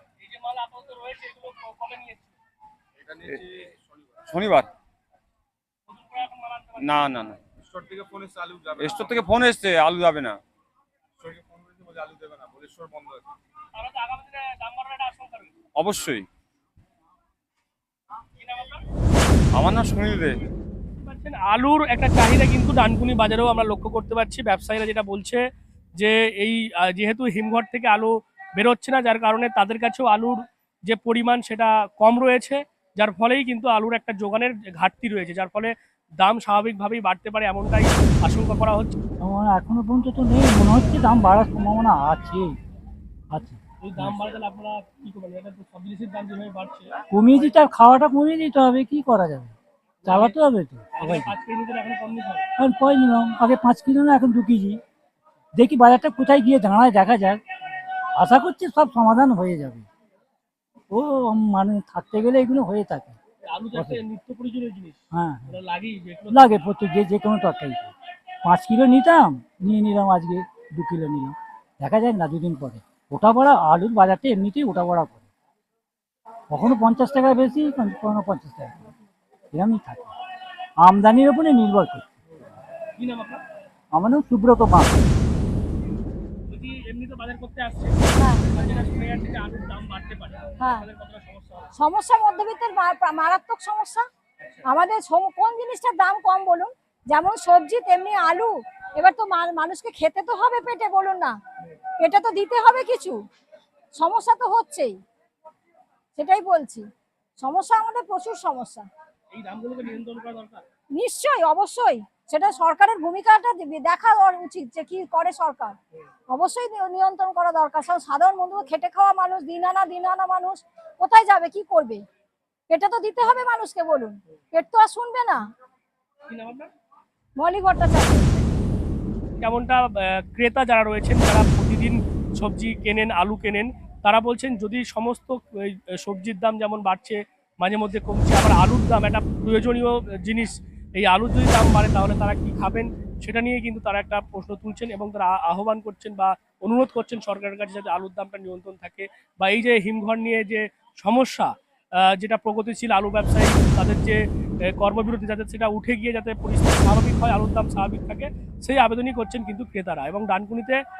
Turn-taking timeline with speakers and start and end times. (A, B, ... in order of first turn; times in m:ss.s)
0:00.2-0:02.3 A
0:03.0-0:03.6 B
0:04.3-0:04.7 C
0:05.9-0:06.9 A
0:06.8-0:07.4 C
0:07.6-0:09.2 B
0:08.8-0:10.4 C
0:11.2-0:13.2 B
0:13.8-0:15.5 A
0:15.8-0:16.2 C
0:18.4-0:18.8 A
0:19.5-0:20.4 C
0:21.0-0:25.4 A
0:26.0-0:39.0 A
0:39.2-0:42.6 D
0:43.3-0:44.3 D
0:43.8-0:46.9 A
0:47.1-0:51.3 D
0:50.0-0:50.4 A
0:51.0-0:52.5 A
0:52.6-0:54.8 D
0:55.5-0:57.4 D
0:58.2-0:59.9 D
1:00.9-1:03.2 D
1:03.4-1:06.5 A
1:03.7-1:04.0 D
1:05.1-1:05.6 D
1:06.3-1:07.9 D
1:08.4-1:15.2 D
1:16.5-1:18.9 D
1:19.5-1:20.1 D
1:20.8-1:22.0 D
1:23.0-1:23.4 A
1:23.9-1:24.9 D
1:26.5-1:31.7 A
1:28.2-1:28.4 E
1:31.7-1:34.0 E
1:34.7-1:41.3 E
1:42.0-1:43.2 E
1:44.0-1:44.9 E
1:46.2-1:46.8 E
1:47.4-1:48.8 E
1:49.3-1:50.6 A
1:51.0-1:55.8 E
1:56.3-2:02.0 E
2:02.7-2:05.4 E
2:06.3-2:06.7 A
2:07.4-2:08.4 E
2:09.4-2:31.5 A
2:32.0-2:34.2 A
2:34.7-2:40.8 A